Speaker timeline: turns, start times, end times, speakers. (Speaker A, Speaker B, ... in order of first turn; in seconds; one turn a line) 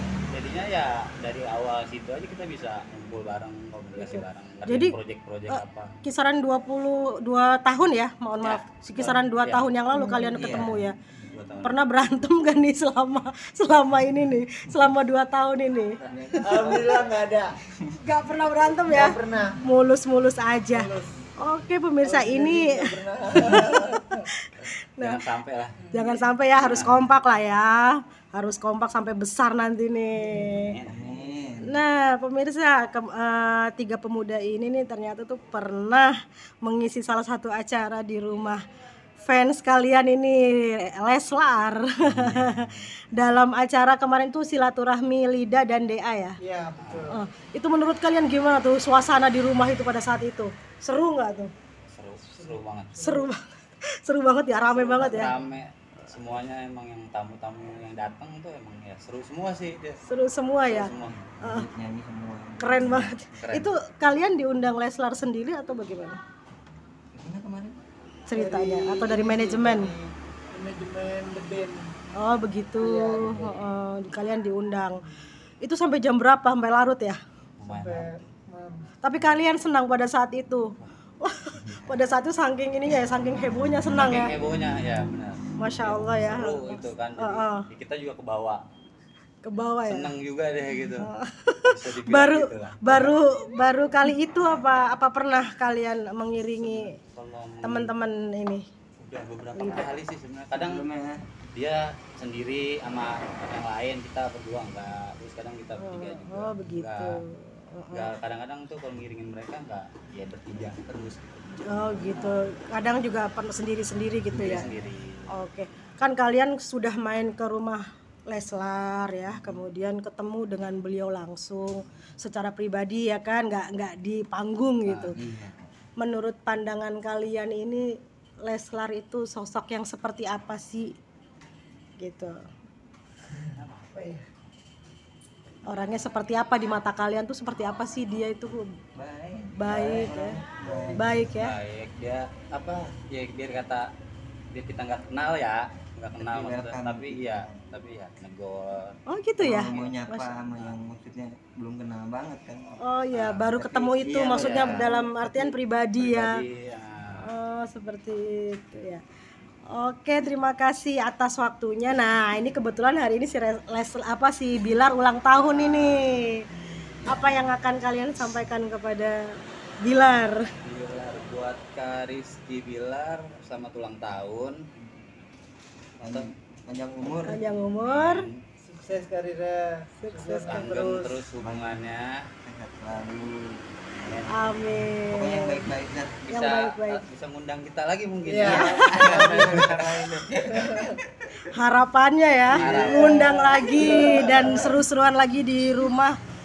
Speaker A: 0.3-5.9
Speaker B: 4.0-5.0
Speaker B: 5.5-11.0
Speaker A: 8.4-9.7
Speaker C: 10.3-10.9
Speaker A: 11.2-11.8
Speaker B: 11.6-16.9
Speaker C: 16.0-17.1
Speaker D: 16.4-17.5
Speaker C: 17.8-18.1
Speaker B: 18.0-25.2
Speaker D: 18.9-19.6
Speaker D: 20.7-21.2
Speaker D: 22.0-24.2
Speaker A: 25.0-27.0
Speaker B: 25.9-30.8
Speaker A: 30.5-31.1
Speaker C: 30.9-31.8
Speaker B: 31.6-36.1
Speaker B: 36.6-38.6
Speaker B: 39.2-46.4
Speaker A: 42.1-42.7
Speaker D: 46.4-47.2
Speaker A: 46.8-47.1
Speaker B: 47.1-51.5
Speaker A: 51.9-53.0
Speaker D: 52.3-53.3
Speaker B: 53.0-53.4
Speaker B: 54.0-55.3
Speaker A: 54.6-60.0
Speaker B: 60.0-60.9
Speaker A: 60.6-61.3
Speaker C: 61.2-63.1
Speaker B: 61.4-61.7
Speaker B: 62.6-66.2
Speaker A: 63.3-63.7
Speaker C: 67.1-67.8
Speaker B: 68.3-69.9
Speaker D: 68.3-71.9
Speaker B: 72.2-75.0
Speaker D: 72.8-73.7
Speaker B: 75.6-77.2
Speaker A: 77.6-78.2
Speaker D: 77.6-78.9
Speaker B: 79.0-80.7
Speaker B: 81.2-84.3
Speaker C: 81.6-82.1
Speaker A: 83.9-88.6
Speaker B: 85.6-87.6
Speaker B: 89.4-90.1
Speaker A: 89.8-91.1
Speaker B: 90.9-97.0
Speaker A: 91.7-93.2
Speaker A: 96.7-97.9
Speaker B: 97.6-98.6
Speaker A: 99.0-100.9
Speaker B: 99.5-99.9
Speaker C: 100.5-101.2
Speaker A: 101.5-107.2
Speaker B: 105.8-108.1
Speaker A: 107.9-112.4
Speaker B: 111.6-114.7
Speaker A: 114.3-115.4
Speaker B: 115.3-125.2
Speaker A: 124.8-125.2
Speaker C: 125.1-125.7
Speaker B: 126.0-130.9
Speaker B: 132.0-132.4
Speaker D: 133.3-134.2
Speaker A: 133.6-133.9
Speaker B: 135.7-138.6
Speaker C: 138.9-141.2
Speaker B: 139.6-140.4
Speaker D: 140.6-141.1
Speaker B: 140.9-141.5
Speaker A: 141.3-143.9
Speaker A: 144.5-148.9
Speaker C: 146.2-147.7
Speaker B: 149.1-150.4
Speaker C: 149.4-155.5
Speaker A: 149.6-149.9
Speaker B: 152.8-156.4
Speaker A: 154.3-154.9
Speaker A: 156.0-157.3
Speaker B: 157.2-159.0
Speaker B: 159.7-166.4
Speaker A: 165.3-166.0
Speaker C: 167.0-167.4
Speaker B: 167.1-169.2
Speaker B: 169.8-170.4
Speaker A: 170.6-174.6
Speaker C: 176.0-177.4
Speaker B: 177.3-178.3
Speaker A: 177.8-178.4
Speaker D: 178.6-181.2
Speaker B: 180.0-180.7
Speaker A: 180.1-182.2
Speaker C: 181.4-181.8
Speaker C: 182.4-183.4
Speaker B: 184.3-185.7
Speaker C: 185.1-186.3
Speaker A: 186.2-190.1
Speaker B: 186.3-187.0
Speaker D: 188.2-189.9
Speaker B: 188.5-189.0
Speaker C: 188.5-191.4
Speaker D: 190.4-190.9
Speaker B: 191.4-196.2
Speaker A: 192.5-193.3
Speaker C: 192.5-193.1
Speaker D: 192.6-194.8